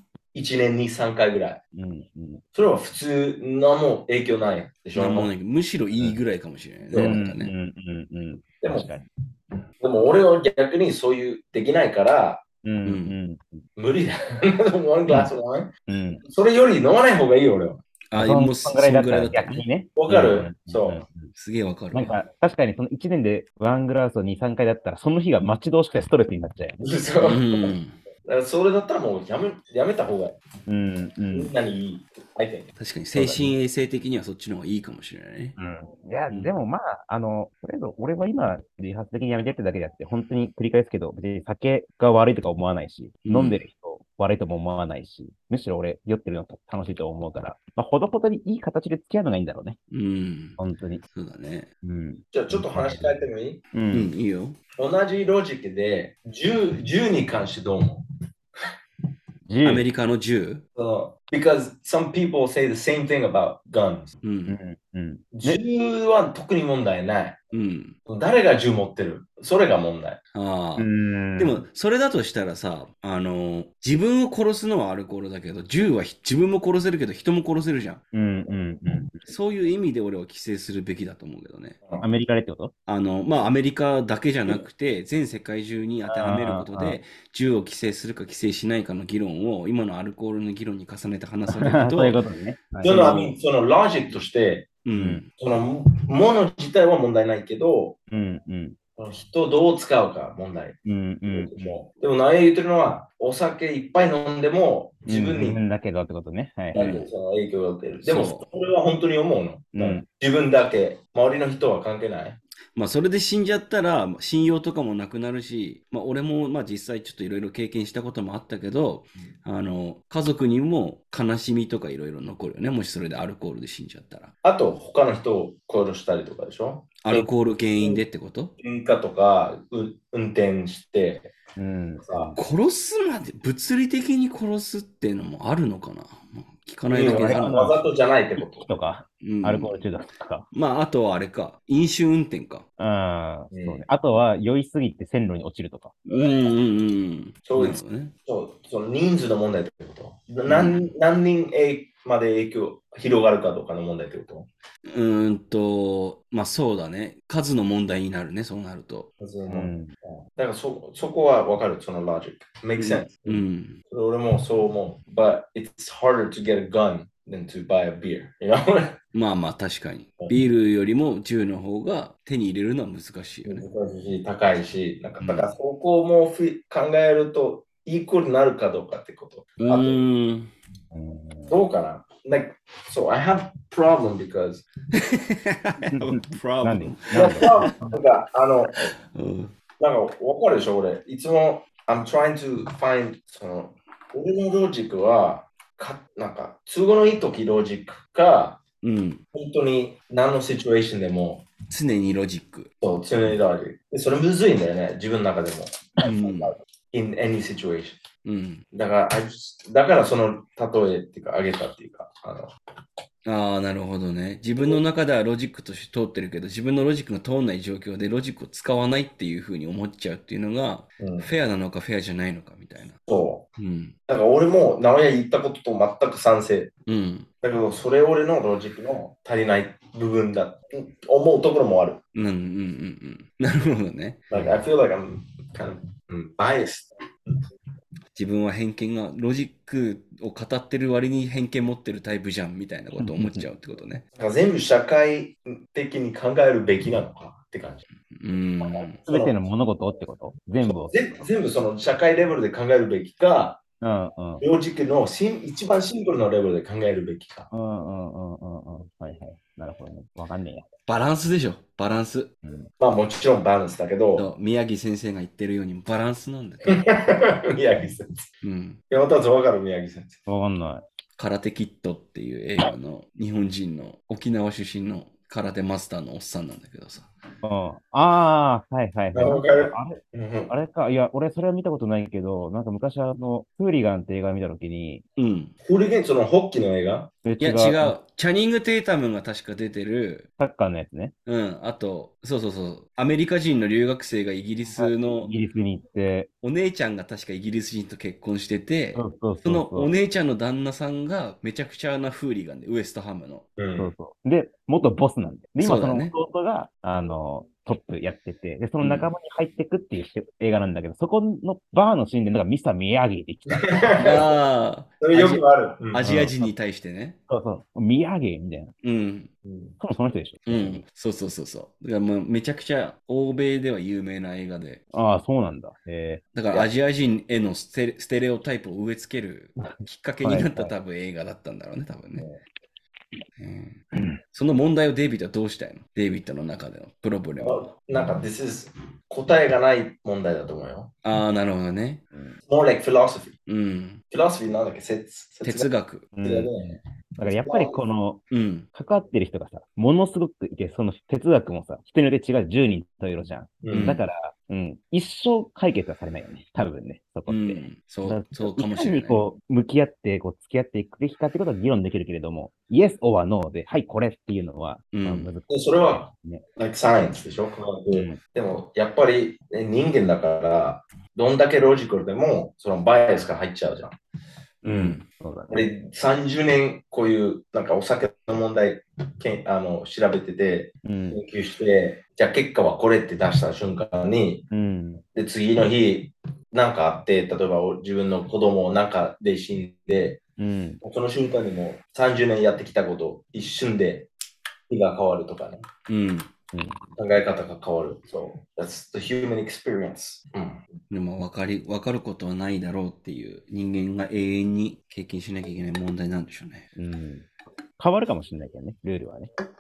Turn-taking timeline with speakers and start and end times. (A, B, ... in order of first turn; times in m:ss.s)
0:00.3-0:01.6 A
0:01.8-0:02.4 B
0:02.5-0:05.3 A
0:05.0-0:07.5 C
0:06.9-0:07.2 A
0:07.0-0:09.0 B
0:08.6-0:09.0 A
0:09.8-0:12.4 A
0:12.6-0:13.6 B
0:12.8-0:13.2 C
0:13.8-0:15.7 A
0:15.9-0:16.2 B
0:16.2-0:17.8 A
0:18.1-0:19.6 C
0:18.2-0:21.3 B
0:20.0-0:21.0 A
0:21.4-0:22.2 C
0:21.9-0:26.8 B
0:26.8-0:30.4 A
0:27.2-0:28.0 C
0:30.7-0:31.5 B
0:31.3-0:32.7 A
0:32.8-0:35.6 C
0:33.2-0:33.6 B
0:35.6-0:49.8 B
0:43.2-0:43.6 C
0:49.9-0:50.6 C
0:50.6-0:51.0 B
0:51.1-0:51.7 C
0:51.8-0:54.1 B
0:52.3-0:53.6 A
0:53.9-0:54.6 C
0:54.8-0:58.0 A
0:59.5-0:59.8 B
0:59.6-1:00.6 C
1:00.8-1:04.2 A
1:04.2-1:04.6 C
1:04.5-1:05.6 B
1:05.3-1:07.4 A
1:07.5-1:08.0 C
1:08.1-1:10.2 A
1:10.3-1:18.0 C
1:10.8-1:11.6 B
1:18.1-1:19.3 B
1:19.3-1:21.8 C
1:22.0-1:22.7 B
1:22.9-1:32.2 C
1:26.1-1:27.0 B
1:31.5-1:33.4 B
1:32.8-1:34.7 A
1:34.8-1:35.3 C
1:35.0-1:35.2 B
1:35.4-1:38.0 A
1:38.1-1:38.8 B
1:39.0-1:45.6 A
1:40.8-1:41.8 B
1:45.1-1:46.9 B
1:46.7-1:52.4 A
1:46.7-1:47.1 C
1:48.0-1:48.5 C
1:49.7-1:50.1 B
1:52.8-2:04.3 C
2:04.4-2:07.3 A
2:07.0-2:08.5 C
2:08.6-2:11.3 A
2:11.6-2:12.4 B
2:12.0-2:12.4 A
2:12.4-2:17.8 C
2:16.9-2:18.7 A
2:17.0-2:17.8 B
2:18.6-2:20.5 B
2:19.2-2:19.8 C
2:20.5-2:22.6 C
2:22.8-2:25.9 B
2:23.5-2:23.8 A
2:26.1-2:28.1 C
2:27.4-2:34.5 A
2:30.5-2:30.8 C
2:34.9-2:39.1 C
2:39.2-2:49.0 A
2:39.5-2:39.9 B
2:42.8-2:43.8 C
2:49.1-2:53.7 C
2:53.5-3:00.1 A
2:55.2-2:55.5 C
2:59.6-3:00.5 C
3:00.9-3:01.6 B
3:01.5-3:04.6 A
3:04.9-3:07.7 C
3:05.9-3:07.7 B
3:07.1-3:08.8 A
3:09.1-3:09.5 C
3:09.8-3:18.6 A
3:18.8-3:19.2 C
3:19.3-3:21.5 A
3:21.7-3:22.7 C
3:22.8-3:28.0 A
3:26.0-3:26.6 C
3:28.2-3:28.6 C
3:28.7-3:32.5 A
3:33.2-3:43.0 C
3:41.0-3:41.3 A
3:43.1-3:43.5 A
3:43.6-3:44.0 C
3:44.1-3:46.7 A
3:46.9-3:47.3 C
3:47.4-3:52.0 A
3:52.2-3:54.2 C
3:54.3-3:56.9 A
3:58.2-4:04.0 C
4:03.0-4:03.5 B
4:04.2-4:07.8 A
4:08.1-4:09.0 C
4:08.6-4:09.4 A
4:09.1-4:11.2 B
4:10.6-4:13.6 A
4:13.8-4:14.4 B
4:14.4-4:17.5 A
4:17.5-4:20.7 B
4:20.9-4:22.3 C
4:22.8-4:24.3 A
4:24.2-4:26.9 C
4:26.7-4:28.2 A
4:28.4-4:28.8 C
4:28.9-4:30.2 A
4:30.3-4:30.8 B
4:31.2-4:37.1 C
4:37.4-4:45.0 B
4:39.1-4:40.5 A
4:45.2-4:45.5 C
4:45.6-4:47.1 A
4:47.2-4:48.0 B
4:47.4-4:50.3 C
4:50.4-4:51.1 B
4:51.3-4:55.3 C
4:54.7-4:56.3 B
4:56.4-5:03.5 C
4:59.0-4:59.9 B
5:03.6-5:03.9 A
5:03.8-5:14.0 B
5:05.6-5:06.1 C
5:08.8-5:09.1 C
5:13.5-5:14.3 A
5:14.0-5:17.2 C
5:15.0-5:16.0 A
5:16.0-5:16.5 B
5:17.3-5:18.7 B
5:18.8-5:19.3 C
5:19.4-5:19.8 A
5:19.8-5:20.8 B
5:20.5-5:24.8 C
5:24.9-5:26.7 B
5:26.3-5:32.3 C
5:30.2-5:30.8 B
5:33.4-5:37.7 C
5:37.4-5:40.9 A
5:41.0-5:42.0 C
5:42.1-5:42.4 B
5:42.5-5:43.4 A
5:43.5-5:44.0 C
5:44.1-5:45.7 A
5:45.4-5:46.1 C
5:46.1-5:48.2 B
5:46.2-5:46.7 A
5:47.2-5:47.8 A
5:48.3-5:48.7 C
5:48.7-6:06.4 B
5:53.6-5:54.0 A
5:53.7-5:54.0 C
5:57.3-5:59.2 C
6:04.9-6:05.3 C
6:05.5-6:14.0 A
6:07.9-6:08.2 B
6:14.6-6:15.0 C
6:14.6-6:15.7 B
6:15.5-6:24.5 A
6:20.8-6:21.2 B
6:24.5-6:25.0 B
6:25.1-6:30.2 A
6:30.4-6:30.8 B
6:30.8-6:34.1 A
6:34.7-6:35.6 A
6:35.9-6:36.3 C
6:36.5-6:36.8 B
6:37.0-6:40.6 A
6:40.9-6:46.7 C
6:46.8-6:47.3 B
6:47.8-6:49.3 B